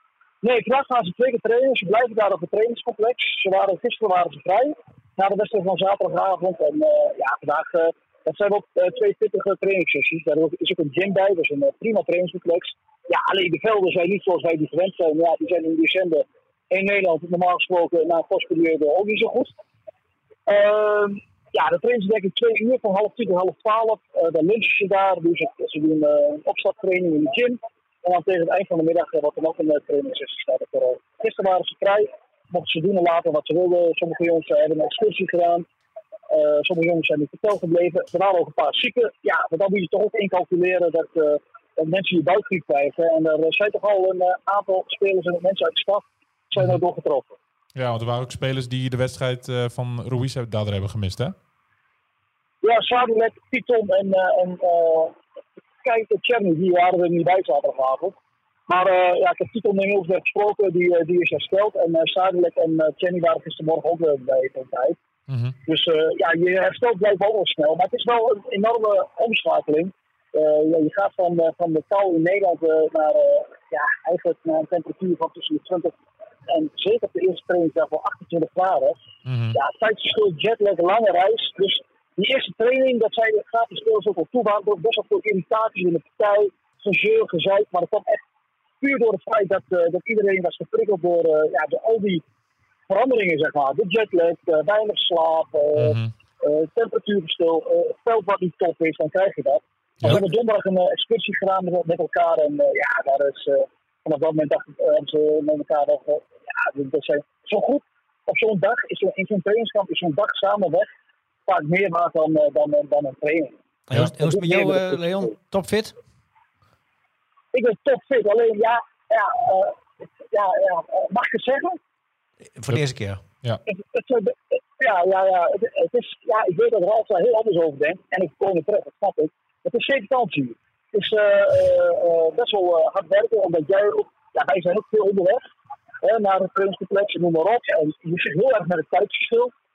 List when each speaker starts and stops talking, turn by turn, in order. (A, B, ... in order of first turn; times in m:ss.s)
0:00.4-0:19.6 A
0:20.4-0:35.6 A
0:36.3-0:47.4 A
0:47.7-0:51.3 B
0:52.6-0:55.2 A
0:55.8-0:58.2 A
0:58.7-1:05.0 A
1:05.3-1:05.6 B
1:05.6-1:15.9 A
1:16.5-1:19.0 A
1:19.2-1:19.6 B
1:19.5-1:28.2 A
1:28.8-1:32.2 A
1:32.9-1:50.9 A
1:35.8-1:36.1 B
1:51.5-1:53.6 A
1:53.9-1:56.0 C
1:54.2-1:55.3 A
1:57.5-1:59.8 A
2:00.3-2:01.8 A
2:02.5-2:03.2 C
2:03.7-2:15.4 A
2:16.0-2:19.5 A